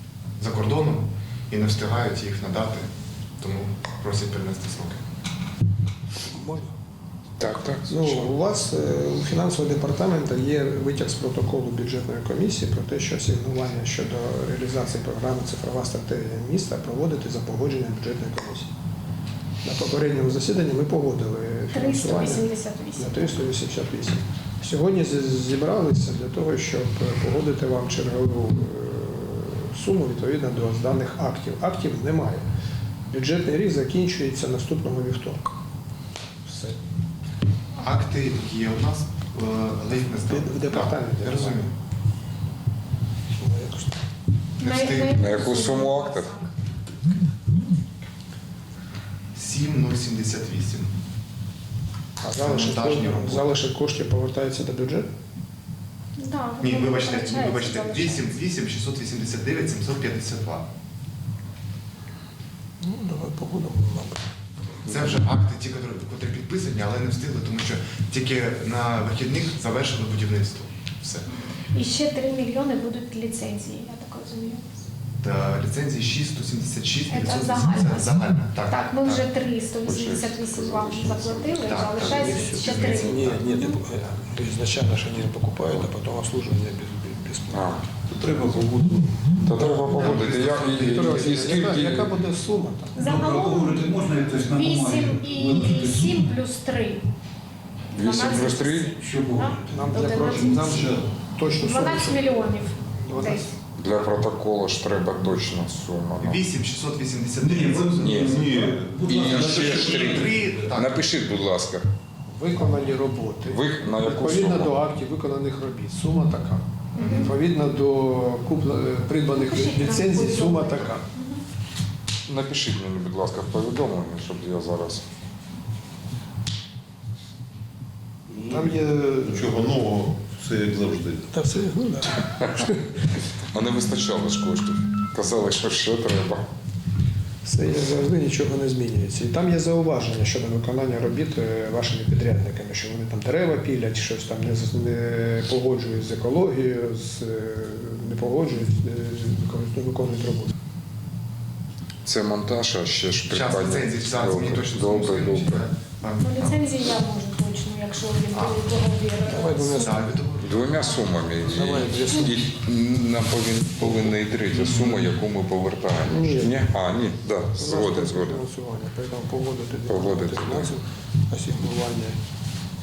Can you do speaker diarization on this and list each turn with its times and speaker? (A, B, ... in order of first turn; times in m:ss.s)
0:00.4-0:05.0 A
0:06.3-0:06.7 B
0:07.4-0:08.3 C
0:07.9-0:18.7 B
0:19.6-0:32.5 B
0:21.7-0:23.4 D
0:33.1-0:35.6 B
0:36.5-0:36.8 B
0:37.8-0:41.7 A
0:40.3-0:41.7 B
0:43.4-0:44.0 B
0:44.6-0:45.3 A
0:44.6-0:46.5 D
0:45.1-0:46.3 C
0:49.4-0:51.0 A
0:52.2-0:55.1 B
0:52.3-0:53.6 A
0:56.2-0:58.3 D
0:56.6-1:00.7 A
1:02.8-1:04.3 B
1:04.9-1:11.3 A
1:11.7-1:14.8 D
1:15.2-1:19.3 A
1:17.1-1:18.2 D
1:18.7-1:23.8 D
1:19.8-1:21.7 C
1:21.6-1:23.5 A
1:22.0-1:27.7 B
1:27.5-1:27.9 C
1:28.2-1:28.6 B
1:29.4-1:32.1 C
1:29.6-1:33.0 B
1:29.9-1:30.9 A
1:33.0-1:33.8 D
1:33.0-1:36.4 E
1:34.5-1:37.1 D
1:37.9-1:41.0 D
1:38.0-1:38.9 C
1:38.9-1:41.1 E
1:39.7-1:43.6 B
1:41.5-1:43.5 D
1:43.7-1:46.4 C
1:46.2-1:48.1 A
1:47.4-1:50.7 E
1:48.0-1:51.9 C
1:48.2-1:49.8 F
1:49.2-1:51.1 A
1:52.3-2:01.0 B
1:53.5-1:54.8 C
1:57.0-1:57.3 D
1:59.3-2:01.4 D
2:02.3-2:05.0 C
2:08.3-2:11.3 F
2:08.5-2:09.6 B
2:11.3-2:13.0 B
2:12.4-2:12.8 C
2:13.4-2:16.5 C
2:17.4-2:30.5 B
2:32.0-2:35.6 C
2:33.3-2:36.8 A
2:36.2-2:40.1 D
2:38.3-2:38.7 A
2:39.3-2:40.2 B
2:39.4-2:40.6 A
2:40.4-2:48.4 C
2:41.4-2:42.4 B
2:46.1-2:46.6 B
2:47.6-2:52.2 B
2:49.9-2:50.8 C